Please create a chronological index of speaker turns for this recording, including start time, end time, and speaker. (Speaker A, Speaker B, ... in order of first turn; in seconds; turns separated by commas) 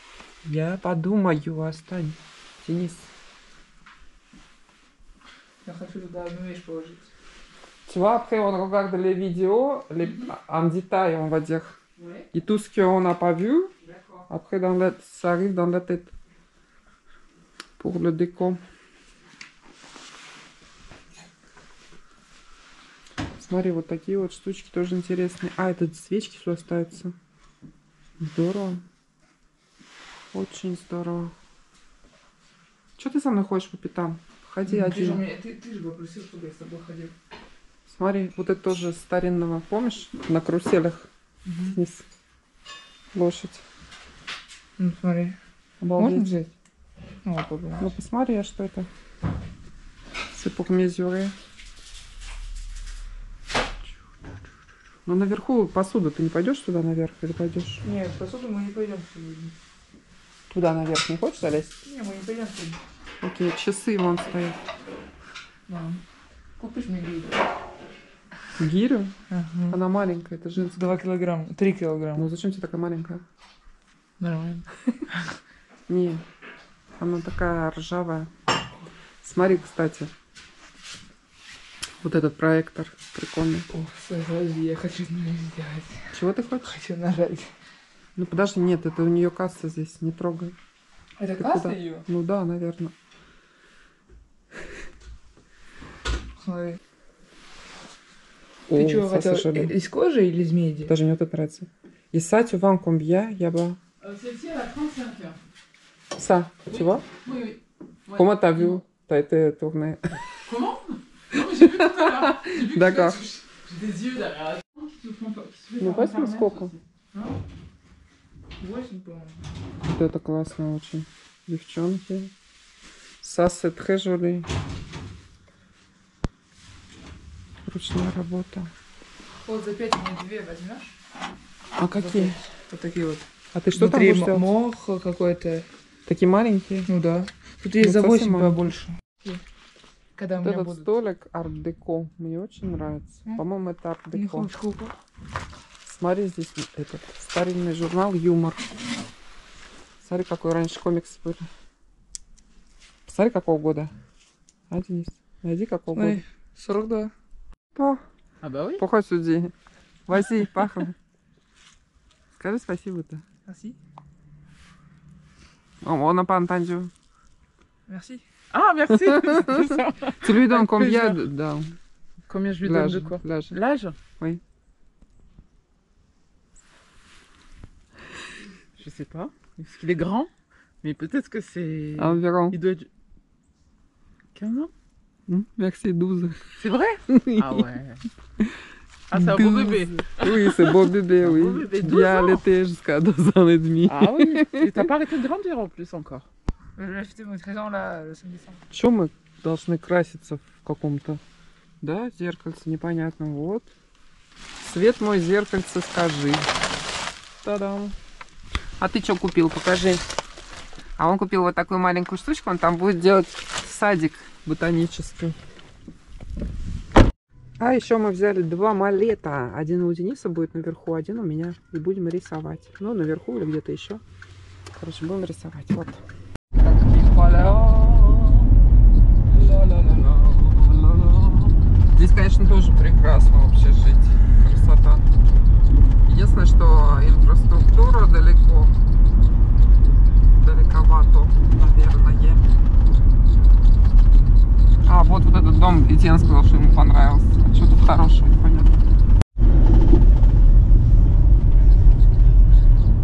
Speaker A: 0.4-3.1, Speaker B: 5.6-7.1, Speaker A: 7.9-11.8, Speaker A: 12.3-13.7, Speaker A: 14.3-16.1, Speaker A: 17.8-18.6, Speaker A: 23.4-27.1, Speaker A: 28.2-28.8, Speaker A: 30.3-31.3, Speaker A: 33.0-35.2, Speaker B: 34.6-37.1, Speaker A: 37.9-41.1, Speaker B: 41.5-41.8, Speaker A: 41.7-42.0, Speaker A: 43.1-43.6, Speaker B: 44.8-45.4, Speaker A: 45.8-46.3, Speaker B: 46.0-46.5, Speaker B: 47.2-47.9, Speaker A: 47.8-48.9, Speaker A: 50.3-51.4, Speaker A: 55.0-57.8, Speaker B: 57.8-59.5, Speaker A: 60.5-61.8, Speaker B: 61.8-62.8, Speaker A: 63.2-64.6, Speaker B: 65.7-66.0, Speaker B: 66.6-67.4, Speaker A: 68.6-69.1, Speaker B: 69.3-69.8, Speaker A: 69.7-70.8, Speaker B: 70.6-72.2, Speaker A: 72.1-73.2, Speaker B: 74.2-75.3, Speaker A: 75.9-76.2, Speaker A: 77.0-78.3, Speaker A: 79.2-80.1, Speaker A: 82.0-83.7, Speaker B: 83.7-87.5, Speaker A: 86.1-86.8, Speaker A: 88.2-90.5, Speaker B: 91.2-92.0, Speaker A: 91.4-92.9, Speaker B: 96.4-96.8, Speaker B: 98.7-100.9, Speaker A: 98.7-99.7, Speaker A: 100.8-103.8, Speaker C: 104.0-105.4, Speaker A: 106.1-107.1, Speaker C: 106.7-108.8, Speaker A: 108.1-110.2, Speaker C: 110.3-116.8, Speaker A: 112.0-113.2, Speaker A: 115.8-116.7, Speaker B: 118.6-119.4, Speaker A: 119.8-122.3, Speaker A: 123.2-124.5, Speaker A: 127.7-128.7, Speaker B: 129.4-131.0, Speaker A: 131.8-132.3, Speaker B: 131.9-135.7, Speaker A: 133.5-134.4, Speaker A: 136.1-136.9, Speaker B: 136.9-139.4, Speaker A: 137.8-138.6, Speaker B: 140.2-140.9, Speaker A: 140.4-144.5, Speaker B: 144.1-144.9, Speaker A: 145.8-148.7, Speaker A: 150.0-151.5, Speaker A: 153.1-153.9, Speaker A: 154.7-156.2, Speaker B: 155.9-157.1, Speaker A: 157.8-158.0, Speaker C: 158.4-158.8, Speaker A: 158.8-159.5, Speaker A: 160.1-160.9, Speaker A: 162.4-163.2, Speaker B: 163.4-163.8, Speaker A: 165.8-166.9, Speaker B: 167.9-168.2, Speaker C: 168.5-171.2, Speaker A: 170.2-171.8, Speaker C: 172.3-174.0, Speaker A: 172.6-173.6, Speaker C: 178.8-180.3, Speaker C: 180.8-182.9, Speaker A: 182.0-182.6, Speaker C: 184.3-184.7, Speaker A: 185.3-186.6, Speaker C: 186.6-188.1, Speaker A: 187.1-187.6, Speaker C: 189.1-192.4, Speaker A: 189.1-194.9, Speaker C: 193.8-196.3, Speaker B: 196.8-198.6, Speaker A: 198.7-201.2, Speaker A: 201.8-203.7, Speaker A: 204.6-206.5, Speaker A: 207.4-208.0, Speaker A: 208.8-210.0, Speaker A: 211.0-215.4, Speaker A: 217.6-224.0, Speaker A: 224.7-226.0, Speaker A: 226.6-228.5, Speaker A: 229.3-235.1, Speaker A: 236.1-238.7, Speaker A: 240.4-242.4, Speaker A: 244.8-248.8